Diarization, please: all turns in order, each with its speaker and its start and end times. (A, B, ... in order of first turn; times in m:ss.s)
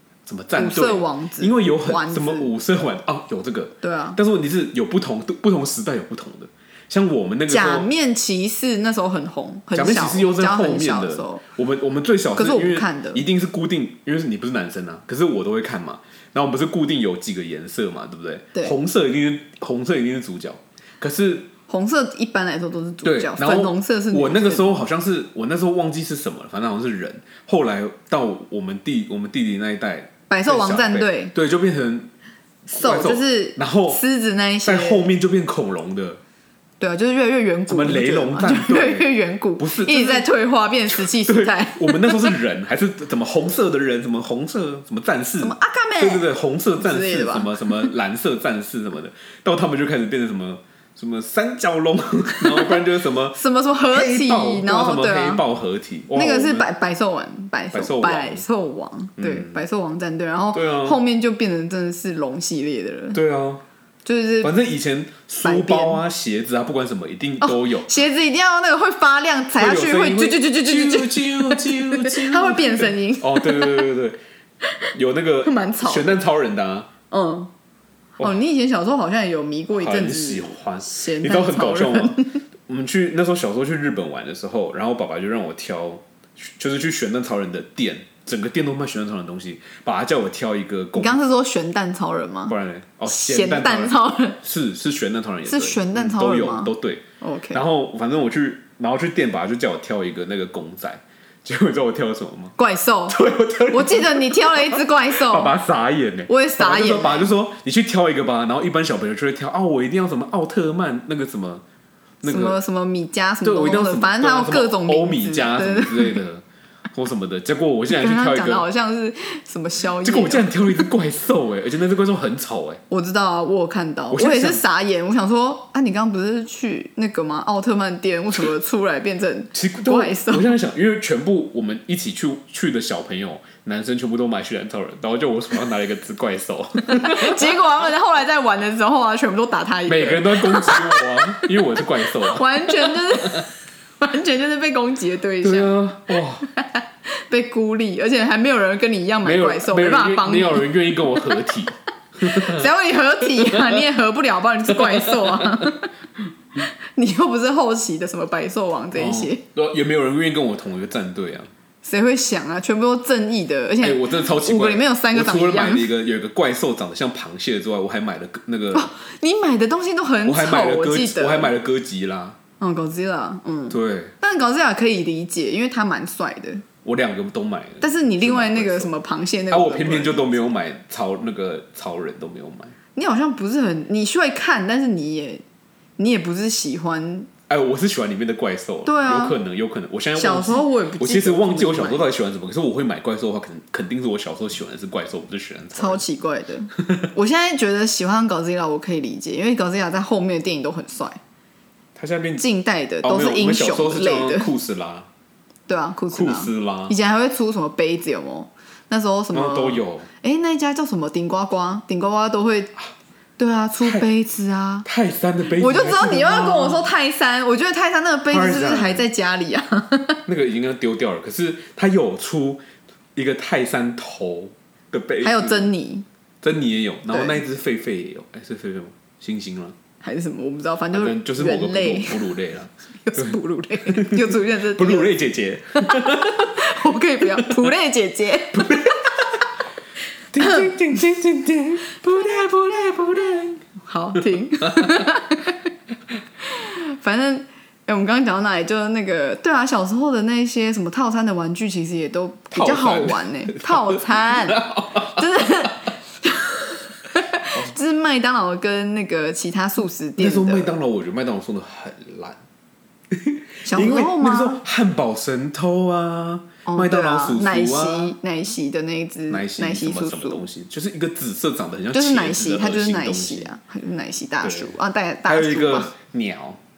0:00.2-0:07.9 A
0:00.5-0:02.5 B
0:03.8-0:04.2 B
0:07.5-0:11.4 B
0:09.7-0:21.5 A
0:12.3-0:13.2 B
0:21.7-0:24.8 B
0:23.0-0:32.1 A
0:30.3-0:31.3 B
0:32.7-0:34.0 A
0:32.7-0:35.1 B
0:34.6-0:36.2 A
0:36.8-0:42.3 B
0:37.7-0:40.3 A
0:40.9-0:53.4 A
0:45.4-0:47.9 B
0:52.4-0:52.8 B
0:53.3-0:55.4 B
0:53.9-0:56.7 A
0:56.1-1:03.2 B
0:57.7-0:58.4 A
0:59.2-0:59.6 A
1:00.5-1:01.0 A
1:03.1-1:03.6 A
1:04.0-1:04.5 B
1:04.4-1:07.9 A
1:05.4-1:06.0 B
1:07.4-1:13.9 B
1:09.6-1:14.2 A
1:14.9-1:16.9 A
1:15.4-1:16.2 B
1:17.1-1:17.5 B
1:18.2-1:22.4 B
1:19.7-1:31.2 A
1:31.0-1:34.4 B
1:32.5-1:42.6 A
1:35.4-1:37.6 B
1:42.6-1:43.2 B
1:43.1-1:51.6 A
1:43.7-1:45.5 B
1:46.3-1:47.3 B
1:52.2-1:52.6 A
1:52.2-1:56.2 B
1:53.4-1:58.6 A
1:57.9-2:00.9 B
2:00.0-2:02.8 A
2:02.9-2:10.5 B
2:04.1-2:04.6 A
2:09.5-2:17.6 A
2:16.8-2:25.8 B
2:19.9-2:23.4 A
2:25.4-2:26.5 A
2:26.6-2:31.4 B
2:29.2-2:32.6 A
2:32.2-2:35.9 B
2:33.4-2:33.8 A
2:34.7-2:35.7 A
2:36.9-2:39.4 B
2:38.9-2:41.5 A
2:41.8-2:45.9 B
2:43.8-2:48.9 A
2:48.7-2:51.5 B
2:50.2-2:52.4 A
2:52.6-2:56.6 B
2:53.7-2:54.1 A
2:56.8-2:58.9 A
2:57.8-3:00.4 B
2:59.5-3:02.7 A
3:03.0-3:05.4 B
3:06.0-3:07.3 B
3:07.5-3:16.0 A
3:08.8-3:09.4 B
3:10.2-3:12.0 B
3:15.7-3:21.2 B
3:16.8-3:17.0 A
3:22.0-3:22.4 A
3:22.4-3:24.5 B
3:23.0-3:25.1 A
3:25.7-3:32.7 B
3:26.1-3:26.9 A
3:29.3-3:30.1 A
3:33.4-3:34.9 B
3:34.8-3:36.9 A
3:35.6-3:40.2 B
3:38.3-3:39.1 A
3:40.2-3:42.6 A
3:43.1-3:45.7 A
3:45.2-3:46.0 B
3:46.4-3:49.8 A
3:50.0-3:52.3 B
3:50.9-3:53.4 A
3:53.0-3:55.1 B
3:53.9-3:56.6 A
3:55.8-3:58.9 B
3:57.2-3:57.6 A
3:58.6-3:59.1 A
4:00.3-4:03.6 A
4:03.8-4:05.6 B
4:04.6-4:05.0 A
4:06.4-4:20.7 B
4:12.5-4:15.2 A
4:20.2-4:22.4 A
4:23.1-4:28.2 A
4:23.6-4:24.6 B
4:26.6-4:30.4 B
4:29.3-4:33.5 A
4:31.9-4:35.9 B
4:34.4-4:34.7 A
4:35.2-4:36.6 A